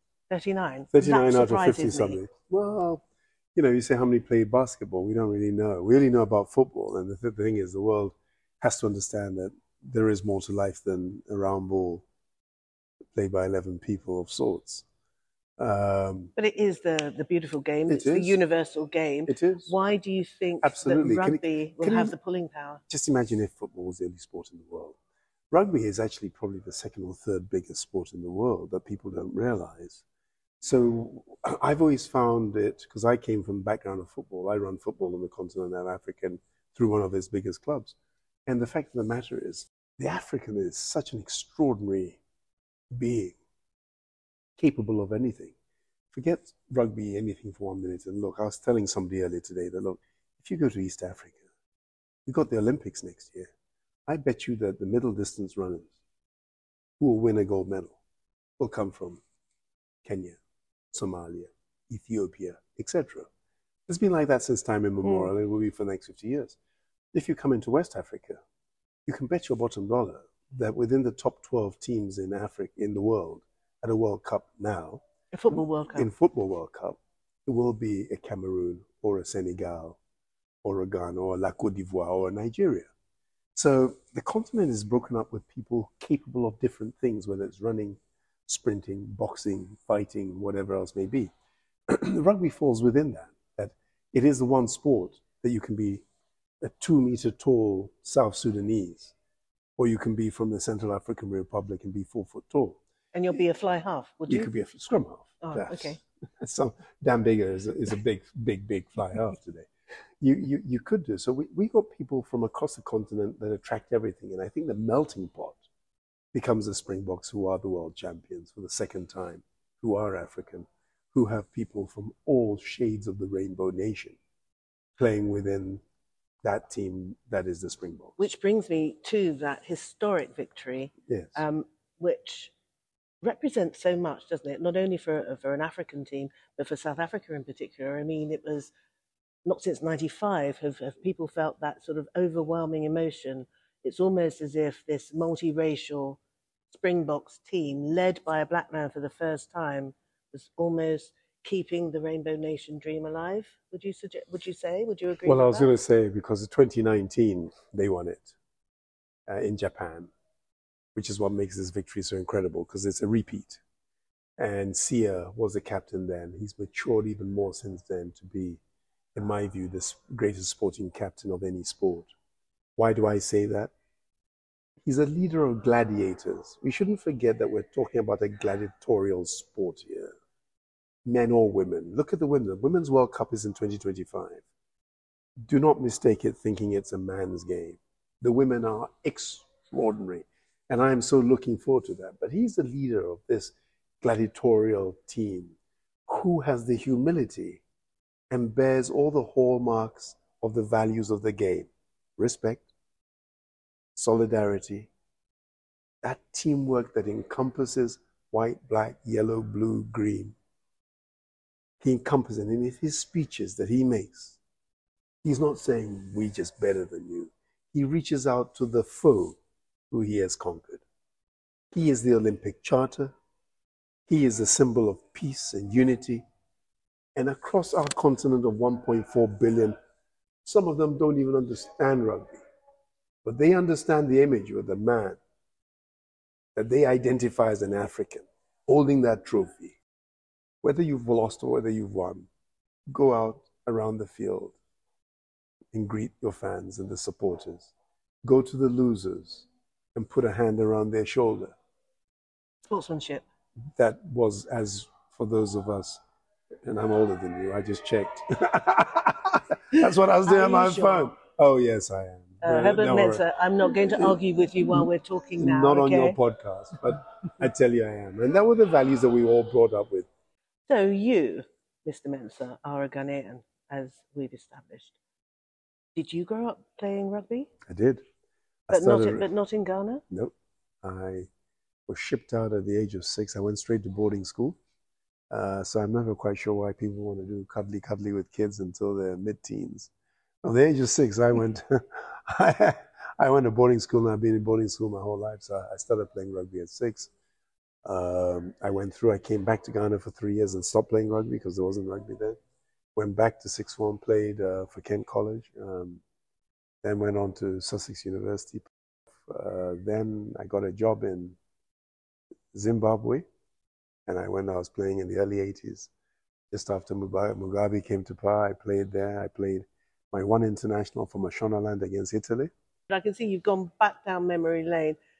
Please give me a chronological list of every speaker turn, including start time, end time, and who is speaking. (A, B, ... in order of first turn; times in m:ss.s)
0:00.3-0:02.2 A
0:00.9-0:03.0 B
0:03.5-0:12.0 B
0:13.1-0:14.8 B
0:15.6-0:16.3 B
0:16.4-0:22.8 A
0:17.9-0:18.4 B
0:19.3-0:19.7 B
0:20.6-0:22.1 B
0:22.9-0:25.0 B
0:25.5-0:30.0 B
0:30.6-0:37.9 B
0:38.4-0:42.2 B
0:42.9-0:43.4 B
0:44.6-0:45.5 B
0:46.1-0:51.4 B
0:52.2-0:53.5 B
0:54.1-0:55.9 B
0:57.0-0:58.0 B
0:58.6-0:59.2 B
1:00.0-1:00.4 B
1:00.9-1:03.3 B
1:03.9-1:06.6 B
1:05.0-1:05.3 A
1:07.1-1:08.4 B
1:09.0-1:20.0 B
1:15.3-1:16.1 A
1:20.6-1:22.9 B
1:23.5-1:31.3 B
1:31.9-1:36.0 B
1:36.6-1:39.1 B
1:39.8-1:42.8 B
1:43.1-1:44.5 A
1:44.3-1:49.7 B
1:45.4-1:46.0 A
1:50.2-1:55.6 B
1:56.3-2:04.2 B
2:05.0-2:05.8 B
2:06.4-2:08.2 B
2:08.2-2:12.5 A
2:11.1-2:11.4 B
2:13.2-2:18.7 A
2:19.4-2:26.2 A
2:26.7-2:35.7 A
2:35.2-2:38.3 B
2:39.3-2:40.1 B
2:40.9-2:43.6 B
2:44.4-2:48.6 B
2:49.1-2:52.1 B
2:52.8-2:53.7 B
2:54.8-3:00.1 B
3:01.0-3:04.4 B
3:05.4-3:15.6 B
3:16.1-3:17.6 B
3:18.3-3:22.7 B
3:24.0-3:24.9 B
3:26.0-3:30.4 B
3:31.8-3:34.4 B
3:35.2-3:39.4 B
3:39.9-3:40.8 B
3:41.7-3:43.1 B
3:44.1-3:46.2 B
3:47.1-3:49.8 B
3:50.4-3:52.4 B
3:53.2-3:55.2 B
3:56.5-3:59.8 B
4:00.6-4:02.3 B
4:02.9-4:04.6 B
4:05.7-4:07.7 B
4:08.2-4:11.6 B
4:12.7-4:13.2 A
4:13.8-4:16.0 B
4:16.6-4:23.2 B
4:19.8-4:21.1 A
4:22.4-4:26.2 A
4:23.8-4:30.1 B
4:30.7-4:34.9 A
4:35.9-4:37.5 A
4:37.7-4:38.0 B
4:38.7-4:39.3 B
4:38.7-4:40.0 A
4:40.1-4:41.3 B
4:41.9-4:44.6 B
4:45.3-4:49.9 B
4:50.4-4:57.1 B
4:57.8-5:02.4 B
5:02.9-5:06.0 B
5:06.8-5:08.7 B
5:09.2-5:11.4 B
5:12.5-5:13.2 B
5:14.1-5:15.9 B
5:16.5-5:22.5 B
5:22.9-5:25.0 A